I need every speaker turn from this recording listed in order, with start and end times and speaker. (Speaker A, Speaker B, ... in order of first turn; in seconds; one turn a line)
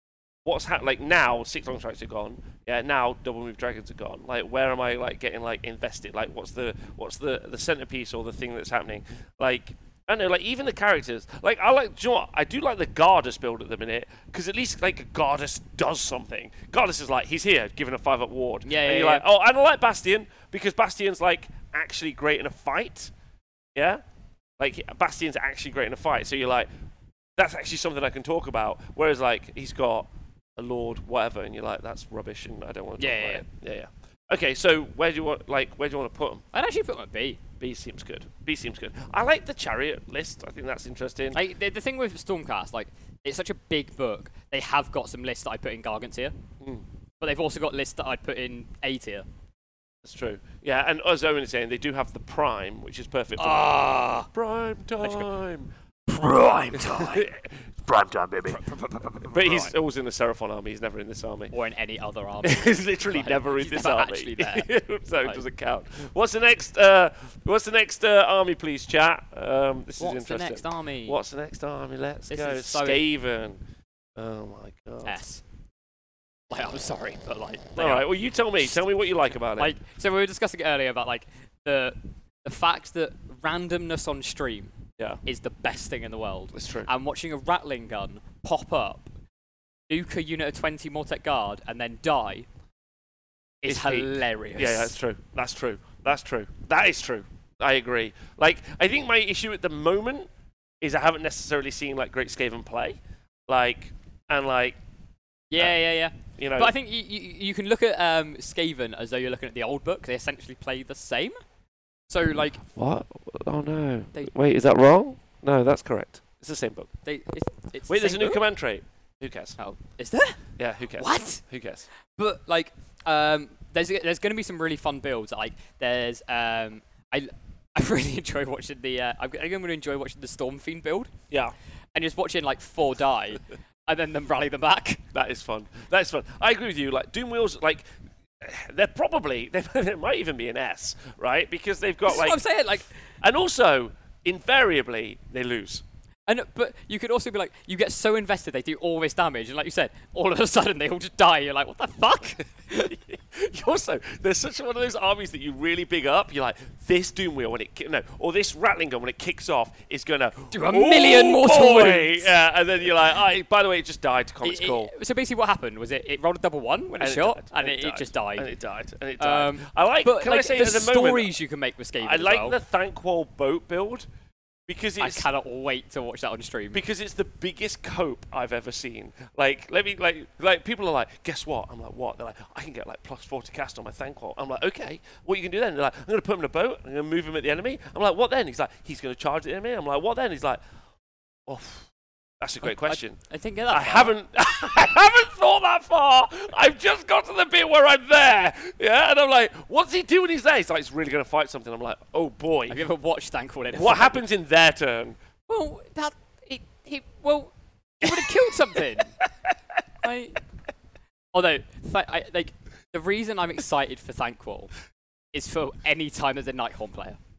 Speaker A: 0.4-23.1
Speaker B: 18.6-19.2
Speaker A: 23.7-24.0
Speaker A: 24.6-26.7
Speaker A: 27.4-36.4
Speaker B: 33.0-33.4
Speaker B: 36.5-37.4
Speaker A: 37.6-41.4
Speaker B: 41.3-46.3
Speaker B: 47.2-49.2
Speaker A: 50.0-55.7
Speaker B: 53.4-54.3
Speaker B: 55.0-55.3
Speaker B: 56.1-57.3
Speaker A: 56.7-58.6
Speaker B: 58.4-59.7
Speaker A: 59.2-61.5
Speaker B: 61.5-64.7
Speaker A: 62.4-73.6
Speaker B: 70.0-71.2
Speaker B: 72.3-73.0
Speaker A: 74.2-75.2
Speaker B: 75.0-75.4
Speaker B: 76.5-78.1
Speaker A: 77.8-79.7
Speaker B: 79.6-84.7
Speaker B: 85.2-89.1
Speaker A: 86.5-86.9
Speaker B: 89.9-92.5
Speaker B: 93.6-94.9
Speaker A: 93.7-100.3
Speaker A: 100.8-104.8
Speaker B: 105.5-111.3
Speaker A: 106.4-106.7
Speaker B: 112.1-112.6
Speaker A: 112.6-116.9
Speaker B: 117.0-118.4
Speaker A: 117.9-119.6
Speaker B: 119.6-120.4
Speaker A: 120.6-121.8
Speaker B: 120.9-121.4
Speaker B: 122.2-131.1
Speaker B: 131.9-135.0
Speaker A: 135.1-137.8
Speaker A: 138.4-142.4
Speaker B: 142.1-142.9
Speaker A: 143.2-145.8
Speaker B: 146.3-152.9
Speaker A: 152.8-164.9
Speaker B: 160.5-162.3
Speaker B: 164.4-168.5
Speaker A: 167.0-171.3
Speaker B: 169.2-172.6
Speaker A: 172.0-174.1
Speaker A: 174.7-175.3
Speaker B: 175.0-176.8
Speaker A: 176.7-190.6
Speaker A: 191.5-202.8
Speaker B: 192.6-194.1
Speaker B: 202.7-204.2
Speaker A: 203.7-205.2
Speaker B: 205.5-209.1
Speaker A: 208.0-208.5
Speaker B: 210.0-210.4
Speaker B: 211.3-214.7
Speaker B: 215.3-217.2